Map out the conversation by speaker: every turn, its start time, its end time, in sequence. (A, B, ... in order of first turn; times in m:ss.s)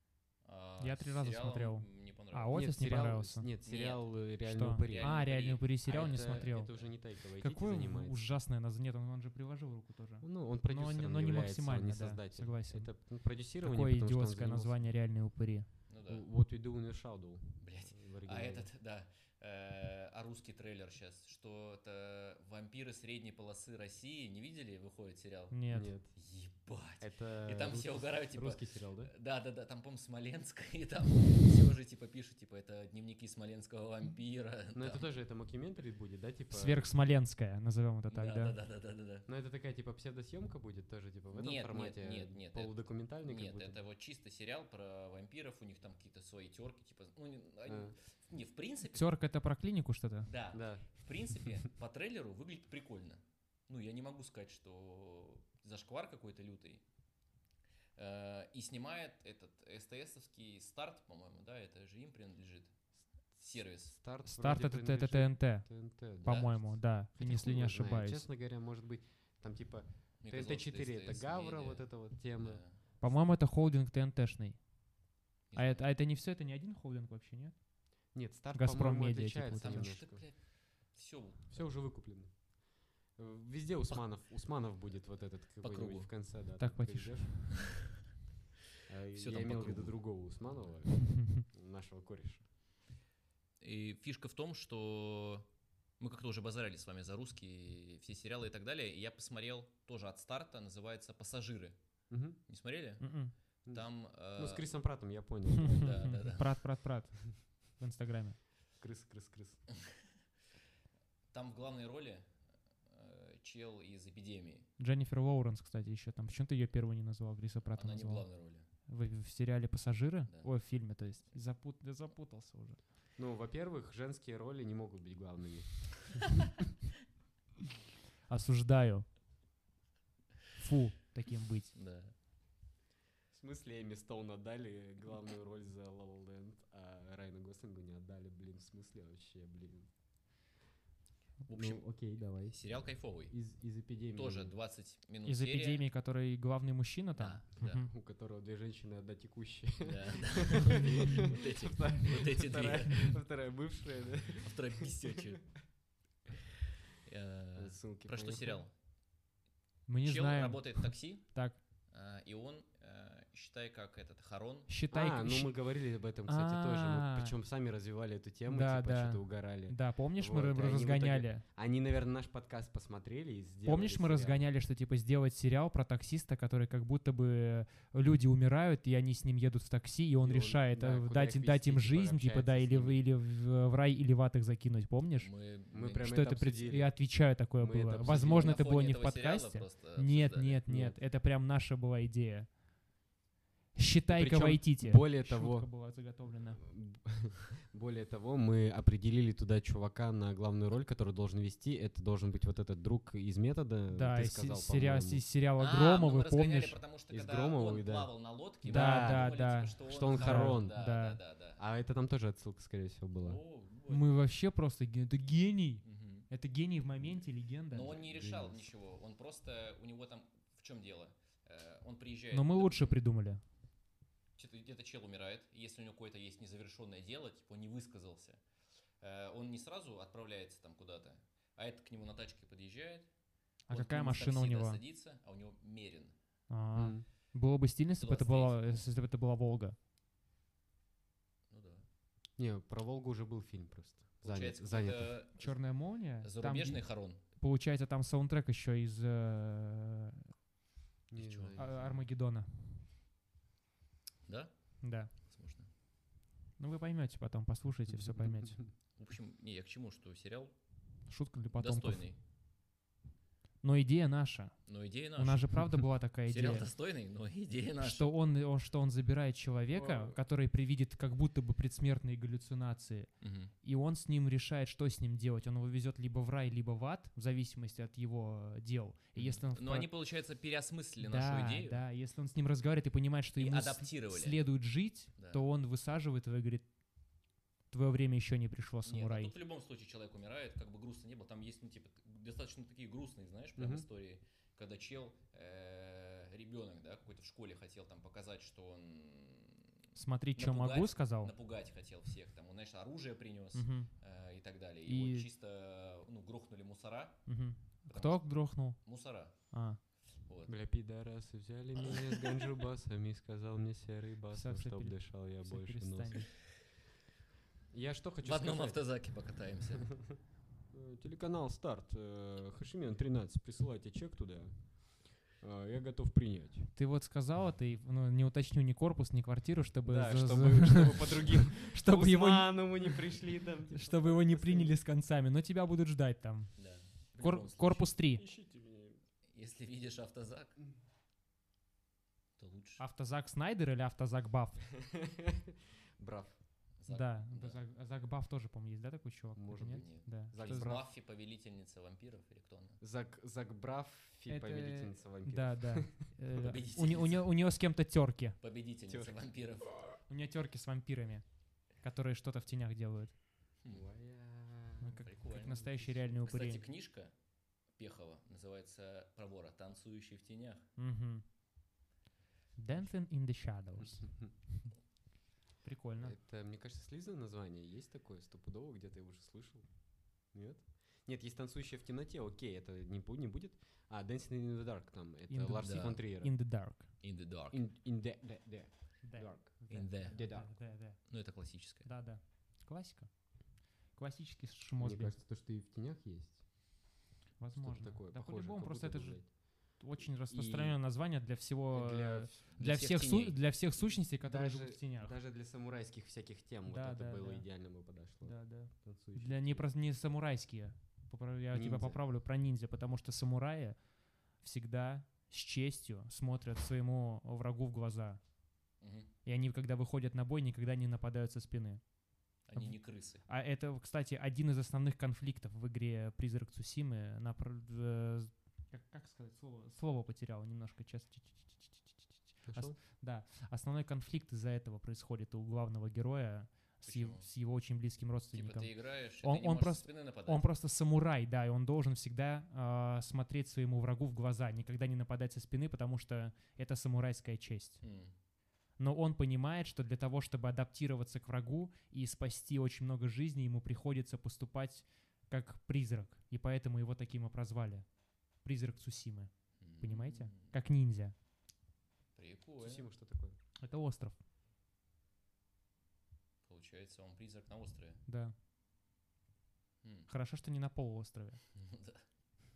0:00.4-0:02.6 A
0:00.8-0:03.5 B
0:02.5-0:05.2 C
0:03.6-0:04.0 A
0:04.4-0:06.7 B
0:04.8-0:06.9 A
0:05.8-0:08.2 C
0:07.4-0:12.9 B
0:10.2-0:14.9 C
0:13.6-0:15.7 B
0:15.9-0:16.2 A
0:16.1-0:18.7 C
0:17.6-0:25.6 A
0:25.5-0:25.9 B
0:25.7-0:26.1 C
0:26.1-0:35.0 A
0:27.0-0:29.1 C
0:34.7-0:36.9 C
0:36.5-0:38.6 B
0:38.1-0:39.2 A
0:39.2-0:43.8 C
0:41.3-0:49.1 A
0:47.6-0:47.9 C
0:48.9-0:50.3 B
0:50.2-0:56.8 A
0:50.5-0:51.4 C
0:58.0-1:03.9 A
1:03.8-1:12.6 C
1:04.2-1:08.2 B
1:06.2-1:06.6 A
1:10.2-1:12.8 A
1:13.0-1:14.7 B
1:15.5-1:15.8 A
1:15.5-1:17.6 B
1:18.1-1:20.2 C
1:18.5-1:20.0 B
1:19.6-1:21.7 A
1:21.5-1:22.5 C
1:23.1-1:27.7 C
1:25.6-1:26.1 A
1:26.6-1:27.6 B
1:28.8-1:32.4 C
1:29.1-1:30.7 A
1:31.1-1:31.4 B
1:33.6-1:35.5 A
1:36.0-1:41.8 A
1:42.1-1:42.4 C
1:42.5-1:43.1 A
1:43.0-1:43.3 B
1:43.6-1:44.7 A
1:43.6-1:46.4 C
1:45.6-1:48.4 B
1:45.7-1:46.6 A
1:48.8-1:49.6 C
1:51.3-1:52.3 A
1:52.9-1:54.7 A
1:54.8-1:58.3 B
1:57.6-1:58.7 A
1:58.9-2:02.8 B
2:03.2-2:06.5 C
2:08.3-2:09.0 B
2:10.6-2:11.7 B
2:11.7-2:12.1 A
2:13.3-2:19.9 C
2:21.5-2:23.4 A
2:21.5-2:24.5 C
2:24.1-2:25.8 A
2:25.2-2:27.9 B
2:27.2-2:27.8 A
2:27.6-2:35.3 C
2:29.8-2:33.2 A
2:34.4-2:35.5 A
2:37.0-2:38.7 A
2:37.6-2:38.6 C
2:39.9-2:41.6 B
2:40.0-2:44.7 A
2:44.7-2:45.6 B
2:44.9-2:54.4 C
2:46.2-2:47.3 B
2:48.5-2:51.4 B
2:53.6-3:05.3 B
3:00.2-3:03.0 C
3:05.2-3:06.2 A
3:05.7-3:08.6 C
3:06.0-3:12.6 B
3:08.0-3:10.6 A
3:10.6-3:11.0 C
3:13.7-3:16.6 B
3:14.1-3:15.7 C
3:16.6-3:25.2 C
3:23.9-3:26.8 B
3:25.6-3:31.6 A
3:27.1-3:29.3 C
3:28.7-3:31.2 B
3:29.8-3:30.8 C
3:31.6-3:33.4 C
3:33.2-3:34.1 A
3:33.9-3:38.0 B
3:35.8-3:36.3 A
3:37.7-3:43.0 A
3:37.8-3:38.7 C
3:42.3-3:43.4 B
3:44.4-3:48.4 A
3:49.0-3:53.1 A
3:53.7-3:54.8 B
3:53.7-3:56.1 A
3:56.5-3:59.8 B
3:56.7-3:57.0 C
3:58.0-3:58.9 A
4:01.5-4:01.8 A
4:02.4-4:05.2 C
4:04.2-4:07.2 A
4:05.4-4:10.3 B
4:11.1-4:11.8 C
4:11.2-4:12.0 A
4:11.6-4:12.8 B
4:14.2-4:15.7 A
4:14.8-4:15.1 B
4:16.6-4:18.6 B
4:19.0-4:20.5 A
4:21.1-4:22.1 B
4:21.5-4:22.2 A
4:23.6-4:26.7 B
4:24.6-4:28.1 A
4:27.8-4:39.9 B
4:29.7-4:30.2 C
4:33.2-4:33.5 A
4:39.2-4:41.8 A
4:41.0-4:46.7 B
4:43.4-4:44.4 A
4:45.2-4:45.4 A
4:47.7-4:49.3 B
4:48.8-4:59.7 A
4:53.6-4:53.8 C
4:59.9-5:01.3 B
5:00.4-5:07.3 A
5:03.5-5:03.9 B
5:04.8-5:05.3 B
5:07.2-5:08.8 B
5:07.9-5:09.5 A
5:09.5-5:09.8 B
5:10.2-5:10.6 A
5:10.5-5:16.3 C
5:11.8-5:12.5 A
5:14.3-5:16.3 B
5:17.7-5:18.8 C
5:18.2-5:20.0 A
5:20.7-5:26.7 C
5:26.7-5:33.1 B
5:29.8-5:34.7 C
5:33.7-5:36.6 B
5:36.6-5:37.9 A
5:37.2-5:38.3 B
5:38.1-5:39.0 C
5:39.3-5:40.6 A
5:42.4-5:42.8 A
5:42.8-5:44.6 B
5:44.8-5:46.4 C
5:46.8-5:47.6 A
5:46.9-5:50.8 B
5:49.3-5:50.8 C
5:49.7-5:52.8 A
5:52.8-5:56.1 C
5:54.3-5:58.4 B
5:56.4-5:57.2 A
5:58.4-5:59.8 A
5:58.9-5:59.2 C
6:00.1-6:03.2 B
6:03.7-6:05.0 C
6:04.8-6:06.6 B
6:05.0-6:07.1 A
6:07.7-6:10.6 A
6:10.8-6:11.2 B
6:12.6-6:14.1 B
6:15.6-6:16.2 B
6:16.0-6:19.7 C
6:20.2-6:26.3 C
6:25.3-6:26.9 B
6:25.6-6:26.0 A
6:27.0-6:27.6 A
6:27.5-6:30.5 C
6:29.0-6:31.1 B
6:29.7-6:31.9 A
6:31.8-6:35.1 B
6:34.8-6:36.7 C
6:37.4-6:45.1 B
6:37.5-6:39.3 C
6:40.3-6:40.8 C
6:41.7-6:42.4 C
6:42.6-6:43.4 A
6:44.2-6:49.6 C
6:46.7-6:47.5 B
6:48.2-6:53.8 B
6:51.5-6:52.0 C
6:54.4-6:58.2 B
6:58.8-6:59.1 A
6:59.2-7:01.8 B
7:02.4-7:03.2 A
7:02.5-7:27.8 B
7:12.4-7:12.8 C
7:16.8-7:17.3 A
7:18.3-7:20.4 A
7:27.8-7:28.1 A
7:28.8-7:41.1 B
7:39.6-7:40.5 A
7:42.1-7:42.8 A
7:42.6-7:43.4 C
7:43.6-7:44.2 B
7:46.4-7:48.0 A
7:48.1-7:48.3 B
7:49.8-7:50.1 A
7:50.1-7:51.4 B
7:51.5-7:52.0 A